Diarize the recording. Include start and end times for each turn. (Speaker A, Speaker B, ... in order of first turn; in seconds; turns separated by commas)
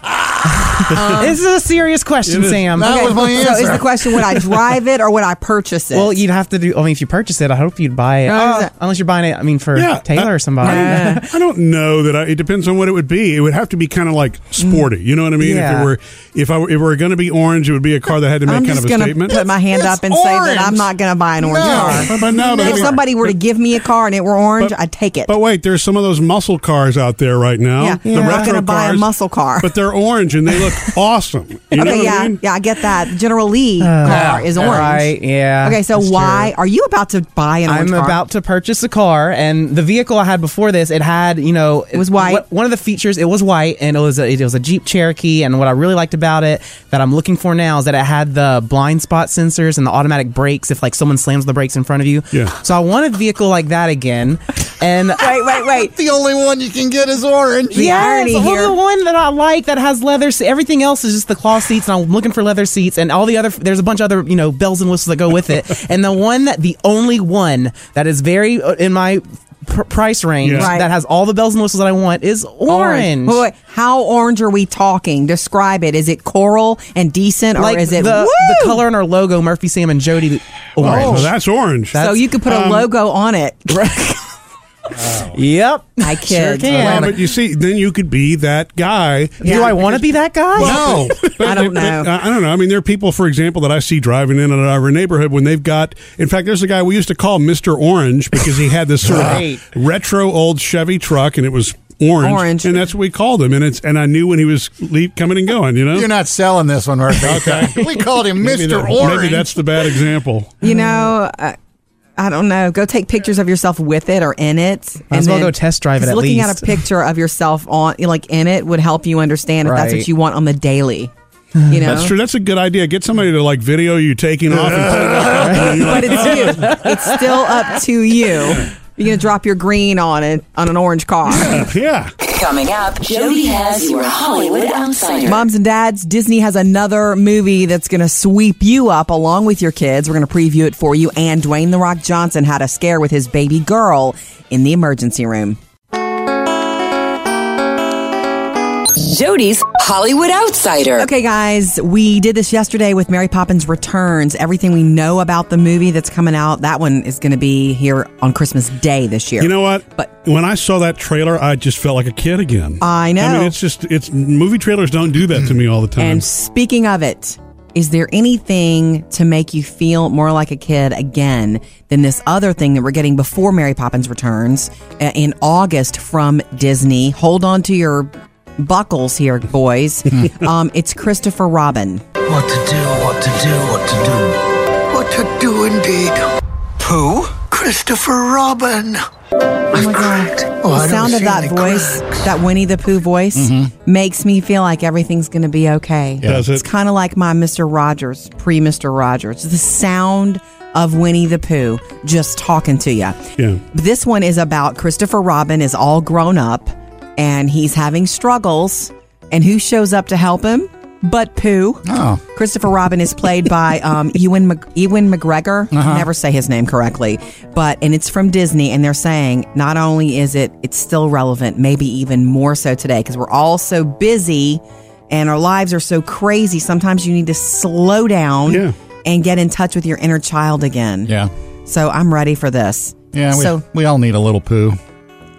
Speaker A: 0.8-3.7, Speaker B: 0.9-1.3, Speaker C: 2.2-2.7, Speaker D: 2.7-3.9, Speaker B: 2.8-6.2, Speaker A: 5.9-11.2, Speaker B: 8.3-8.7, Speaker C: 9.7-19.4, Speaker B: 10.6-11.2, Speaker A: 15.4-15.9, Speaker B: 18.5-25.3, Speaker D: 19.7-23.0, Speaker C: 21.7-23.0, Speaker C: 25.3-29.1, Speaker B: 27.8-29.7, Speaker A: 28.1-28.5, Speaker C: 29.6-32.4, Speaker B: 31.7-38.2, Speaker A: 33.8-36.5, Speaker D: 34.0-34.9, Speaker A: 37.7-55.4, Speaker B: 41.9-42.4, Speaker B: 55.2-55.9, Speaker D: 55.6-58.0, Speaker B: 57.7-58.8, Speaker A: 57.7-73.4, Speaker C: 70.4-70.7, Speaker B: 70.6-70.9, Speaker B: 72.7-78.8, Speaker A: 77.5-81.3, Speaker C: 80.8-82.9, Speaker B: 80.8-81.2, Speaker D: 80.8-81.1, Speaker A: 81.9-82.2, Speaker B: 82.0-84.2, Speaker A: 83.7-84.0, Speaker D: 85.0-85.3, Speaker A: 85.3-87.2, Speaker B: 86.0-87.1, Speaker C: 86.7-106.1, Speaker D: 86.7-87.0, Speaker B: 89.4-89.8, Speaker A: 89.4-91.0, Speaker D: 90.6-91.3, Speaker B: 91.4-92.1, Speaker D: 99.0-99.4, Speaker A: 99.1-99.6, Speaker B: 102.2-102.8, Speaker D: 105.9-109.5, Speaker C: 107.2-110.5, Speaker B: 110.6-111.6, Speaker B: 112.2-121.1, Speaker A: 115.1-116.8, Speaker A: 119.6-120.1, Speaker B: 121.7-122.1, Speaker C: 121.8-126.8, Speaker D: 124.7-125.4, Speaker A: 125.4-127.7, Speaker B: 125.6-131.6, Speaker C: 131.3-132.1, Speaker E: 132.2-135.4, Speaker B: 135.2-145.6, Speaker E: 148.9-151.1, Speaker B: 151.0-160.1, Speaker C: 159.4-166.2, Speaker B: 162.8-163.5, Speaker B: 166.0-182.0, Speaker F: 182.2-184.4, Speaker F: 184.9-186.2, Speaker F: 186.8-189.0, Speaker F: 189.7-192.2, Speaker B: 189.7-203.2, Speaker D: 193.3-193.7, Speaker D: 196.2-196.5, Speaker C: 196.2-196.6, Speaker B: 203.7-231.1, Speaker D: 211.8-212.2, Speaker D: 215.7-216.1, Speaker C: 228.5-228.7, Speaker B: 231.7-233.6, Speaker D: 233.1-234.8